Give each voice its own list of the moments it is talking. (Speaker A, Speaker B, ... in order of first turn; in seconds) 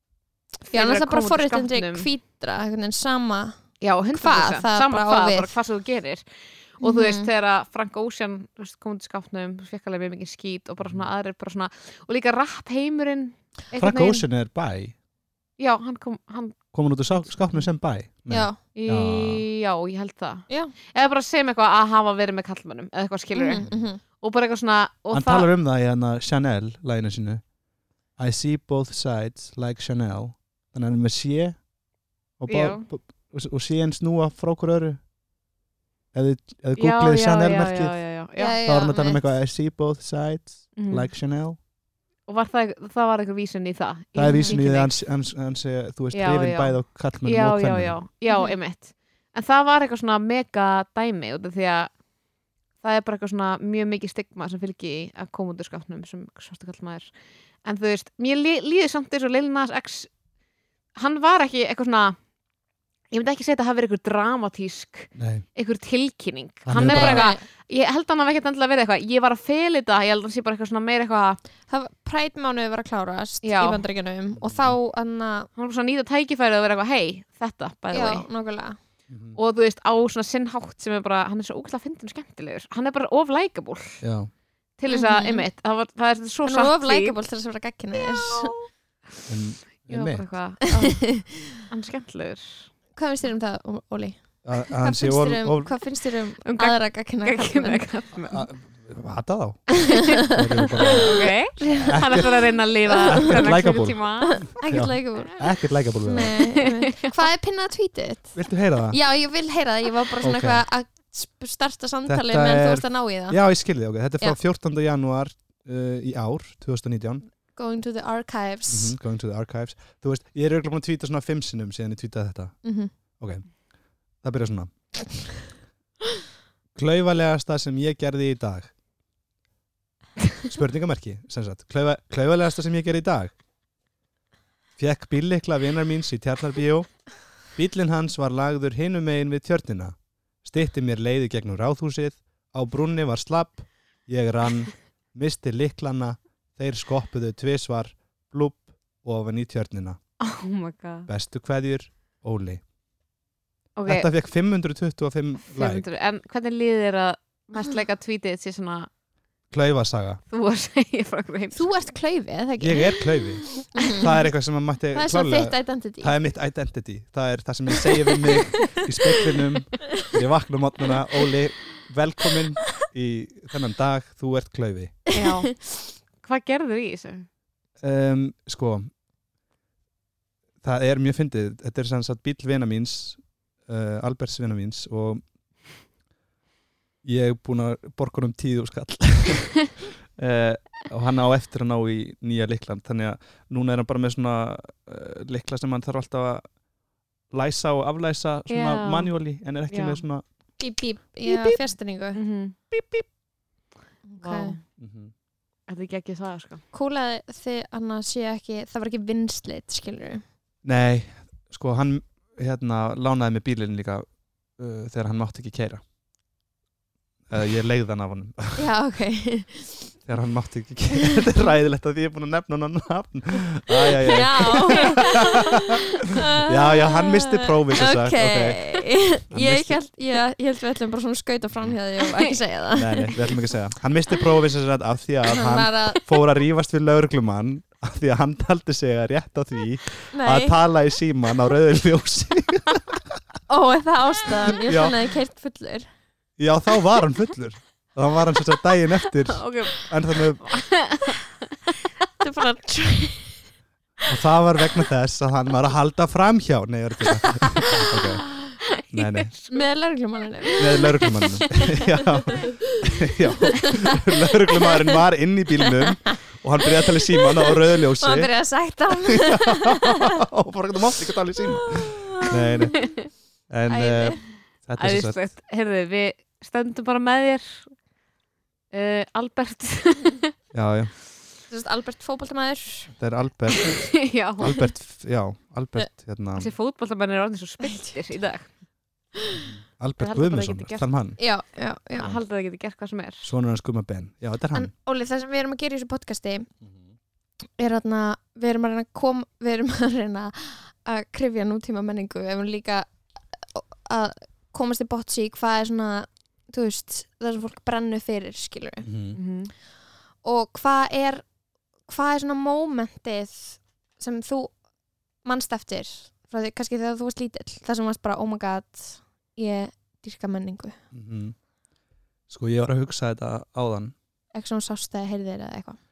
Speaker A: 0.7-2.1, 3.8-6.2, 6.8-14.2, 15.6-17.7, 18.7-25.5, 32.5-32.9, 36.8-38.6, 40.8-41.1, 42.3-45.0, 46.1-52.0, 52.8-57.1, 57.6-60.1, 61.0-62.2, 63.1-71.4, 73.4-73.8, 75.5-78.3, 79.3-84.0, 84.8-87.1, 89.8-92.7, 96.5-98.4, 100.8-104.5, 106.9-107.1, 150.2-151.1, 153.8-154.1, 155.5-158.9, 160.3-161.7, 175.1-177.2, 198.5-199.1, 199.7-200.0, 202.1-202.6, 204.2-204.6, 205.7-206.6, 249.3-251.2, 258.8-259.6, 274.8-277.7, 278.7-280.3, 284.0-284.7, 286.4-288.5, 290.0-290.9, 292.0-293.3, 309.1-309.5
Speaker B: 0.7-5.5, 6.8-7.3, 18.3-18.6, 20.5-20.7, 23.3-24.0, 38.4-39.2, 44.3-44.6, 48.3-48.5, 66.8-67.4, 71.7-75.5, 77.9-78.8, 84.9-85.4, 86.4-88.5, 90.8-91.6, 92.9-97.8, 101.6-101.9, 104.4-105.4, 106.0-113.4, 117.5-119.0, 122.6-122.9, 161.5-164.1, 164.9-166.1, 168.7-169.2, 200.6-202.2, 204.1-204.6, 206.7-210.2, 218.6-219.9, 224.0-225.6, 226.2-233.1, 235.3-236.1, 240.1-240.6, 243.5-245.9, 252.2-253.4, 259.5-261.6, 268.0-270.1, 271.7-272.9, 273.7-274.2, 281.5-282.9, 287.6-287.9, 291.2-292.1, 294.5-296.5, 297.6-308.9, 310.2-311.2, 311.8-314.6, 315.2-320.8, 324.3-325.8
Speaker C: 10.8-11.1, 13.8-14.9, 16.7-19.4, 25.1-27.4, 28.2-31.6, 32.4-35.0, 36.1-38.0, 38.6-41.6, 44.1-48.0, 65.2-65.4, 66.7-67.3, 74.3-74.8, 79.1-79.4, 84.0-84.3, 89.3-90.3, 94.4-95.8, 98.3-102.4, 103.0-106.4, 108.3-109.0, 110.2-110.6, 112.0-117.2, 118.7-122.6, 123.2-123.6, 124.2-124.7, 126.7-128.7, 130.5-133.3, 134.8-150.0, 151.1-152.6, 153.9-155.8, 159.5-160.2, 162.6-175.0, 177.8-178.9, 180.6-185.2, 187.0-196.5, 197.3-200.2, 204.8-205.1, 210.6-215.8, 217.3-218.6, 220.1-225.4, 226.4-229.8, 232.7-243.1, 244.7-245.0, 246.4-250.5, 254.1-258.2, 258.9-259.3, 260.6-275.2, 280.5-280.9, 283.0-286.5, 289.4-291.2, 293.2-294.7, 308.8-309.2, 320.9-321.4, 322.3-323.9